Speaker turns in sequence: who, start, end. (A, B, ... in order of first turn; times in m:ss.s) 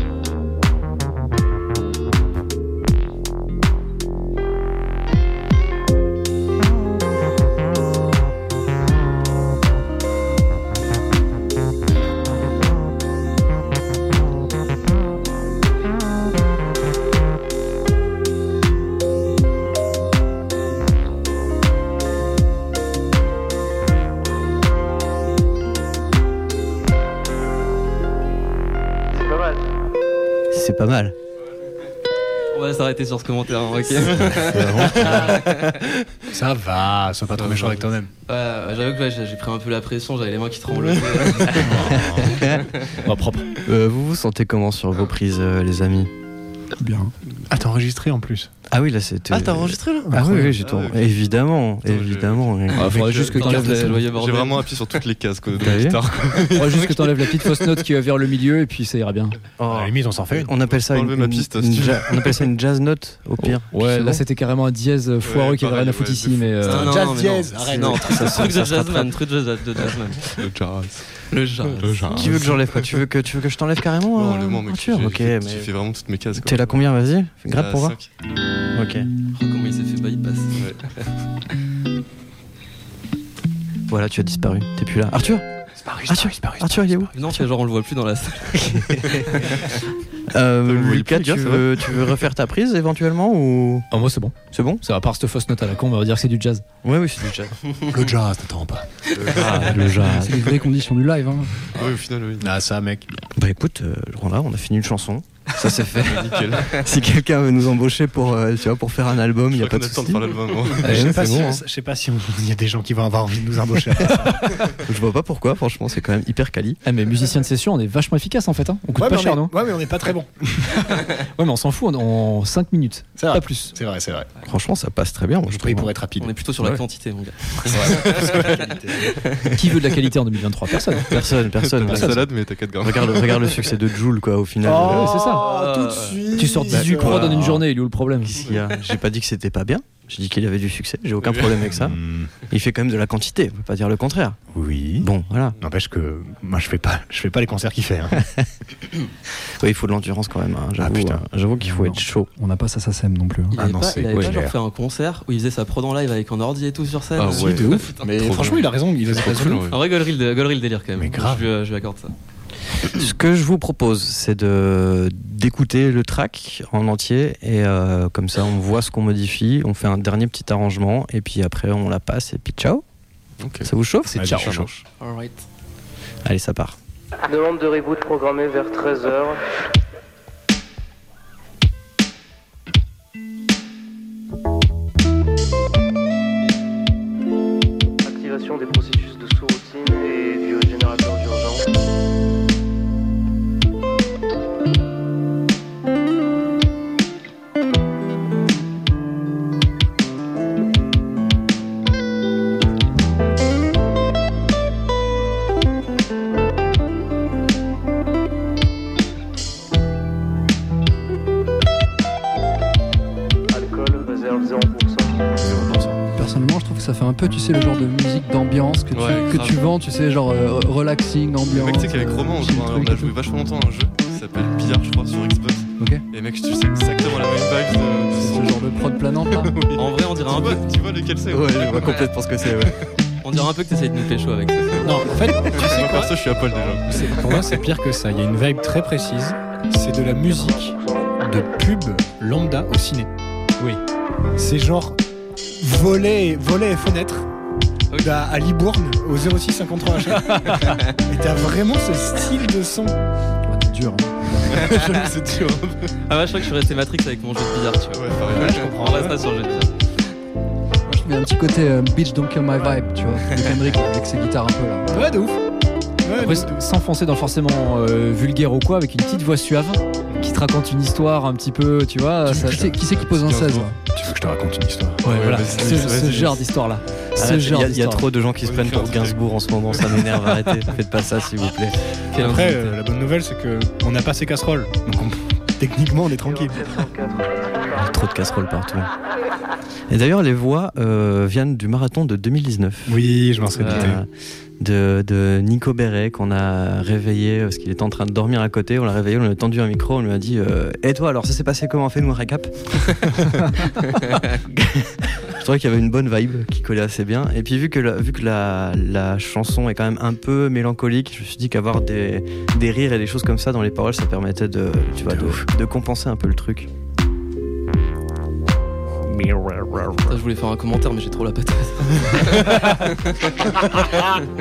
0:29.1-0:29.6 A
0:30.5-0:31.1 B
0:32.5-0:35.8 C
0:34.2-0:35.6 D
0:36.2-0:38.1 D
0:37.4-0:37.8 E
0:38.3-0:42.0 C
0:40.8-0:41.5 E
0:41.4-0:42.4 D
0:42.2-0:42.6 B
0:43.0-0:43.5 F
0:43.6-0:46.1 B
0:46.8-0:47.1 G
0:47.5-0:48.5 D
0:48.7-0:52.9 B
0:49.3-0:51.3 E
0:50.1-0:50.5 D
0:51.8-0:52.6 E
0:52.7-0:54.0 F
0:52.8-0:54.8 C
0:52.9-0:53.2 D
0:53.4-0:57.8 E
0:55.6-0:56.0 B
0:56.5-0:59.4 F
0:59.6-1:04.2 B
0:59.7-1:00.5 D
1:00.6-1:02.5 E
1:03.4-1:07.0 F
1:05.2-1:06.9 E
1:06.6-1:10.4 C
1:06.7-1:08.7 D
1:07.8-1:09.2 B
1:10.4-1:11.1 E
1:11.3-1:12.2 C
1:11.8-1:13.0 E
1:12.2-1:15.7 B
1:14.1-1:16.8 E
1:16.3-1:18.0 B
1:17.5-1:18.1 E
1:18.7-1:19.1 B
1:19.3-1:20.7 C
1:23.9-1:25.4 B
1:25.8-1:27.1 D
1:26.1-1:27.4 B
1:27.1-1:29.7 C
1:28.7-1:29.4 B
1:30.3-1:33.9 B
1:30.6-1:32.2 E
1:33.9-1:36.6 F
1:34.5-1:34.8 B
1:36.8-1:37.6 B
1:37.9-1:38.9 D
1:39.1-1:40.4 B
1:39.2-1:40.0 E
1:40.0-1:41.6 G
1:41.7-1:42.5 E
1:42.4-1:43.1 D
1:43.4-1:51.6 B
1:46.0-1:46.8 E
1:49.5-1:51.2 E
1:50.8-1:51.5 F
1:50.8-1:54.6 D
1:54.8-1:56.8 B
1:56.8-1:59.5 F
1:59.0-2:00.8 D
2:01.2-2:03.7 F
2:03.2-2:04.3 D
2:04.4-2:05.9 B
2:05.5-2:06.4 D
2:06.2-2:09.5 C
2:07.6-2:09.2 D
2:09.5-2:11.1 F
2:11.1-2:15.2 B
2:11.2-2:13.6 E
2:14.6-2:17.4 D
2:14.8-2:15.4 F
2:15.3-2:16.3 C
2:16.3-2:18.4 F
2:16.7-2:17.6 B
2:18.2-2:24.4 B
2:21.2-2:21.6 E
2:21.7-2:22.3 D
2:24.5-2:28.3 D
2:25.0-2:25.6 B
2:29.6-2:32.3 B
2:30.8-2:31.2 D
2:31.6-2:33.6 G
2:33.5-2:38.3 C
2:33.6-2:34.6 D
2:37.1-2:39.8 E
2:37.2-2:39.7 D
2:39.7-2:42.1 C
2:41.0-2:41.5 D
2:42.9-2:52.8 B
2:53.4-2:53.7 E
2:53.6-2:54.5 B
2:54.1-2:54.7 F
2:54.1-2:54.7 D
2:54.2-2:54.7 E
2:55.0-2:55.4 C
2:56.2-2:56.8 B
2:57.3-2:59.4 A
3:08.0-3:11.7 A
3:33.5-3:35.3 A
3:35.4-3:36.0 D
3:36.2-3:43.1 G
3:38.9-3:39.6 E
3:41.5-3:48.6 E
3:48.2-3:49.5 G
3:49.3-3:52.8 E
3:49.8-3:50.7 C
3:51.3-3:52.8 B
3:53.2-3:56.0 C
3:54.8-3:56.2 D
3:55.5-3:57.6 E
3:56.9-4:03.1 D
4:00.2-4:01.2 A
4:04.4-4:07.3 D
4:07.9-4:08.2 C
4:08.0-4:13.0 D
4:10.3-4:10.6 F
4:10.6-4:10.9 C
4:13.5-4:14.1 G
4:14.6-4:15.9 E
4:14.7-4:15.1 C
4:16.0-4:19.7 C
4:17.9-4:19.2 E
4:18.2-4:19.3 D
4:20.9-4:25.0 G
4:24.9-4:25.4 D
4:26.0-4:26.6 D
4:26.2-4:32.6 F
4:32.2-4:33.8 G
4:32.8-4:33.7 E
4:33.8-4:35.0 D
4:35.0-4:36.4 E
4:35.0-4:38.1 F
4:37.2-4:41.8 B
4:38.4-4:39.2 E
4:39.7-4:40.1 E
4:42.1-4:42.8 C
4:42.1-4:46.9 D
4:46.2-4:48.0 A
4:47.8-4:48.9 B
4:49.9-4:53.0 B
4:52.9-4:54.0 D
4:53.6-4:54.0 C
4:53.6-5:16.7 B
5:15.1-5:15.4 D
5:20.0-5:23.8 C
5:23.5-5:24.0 D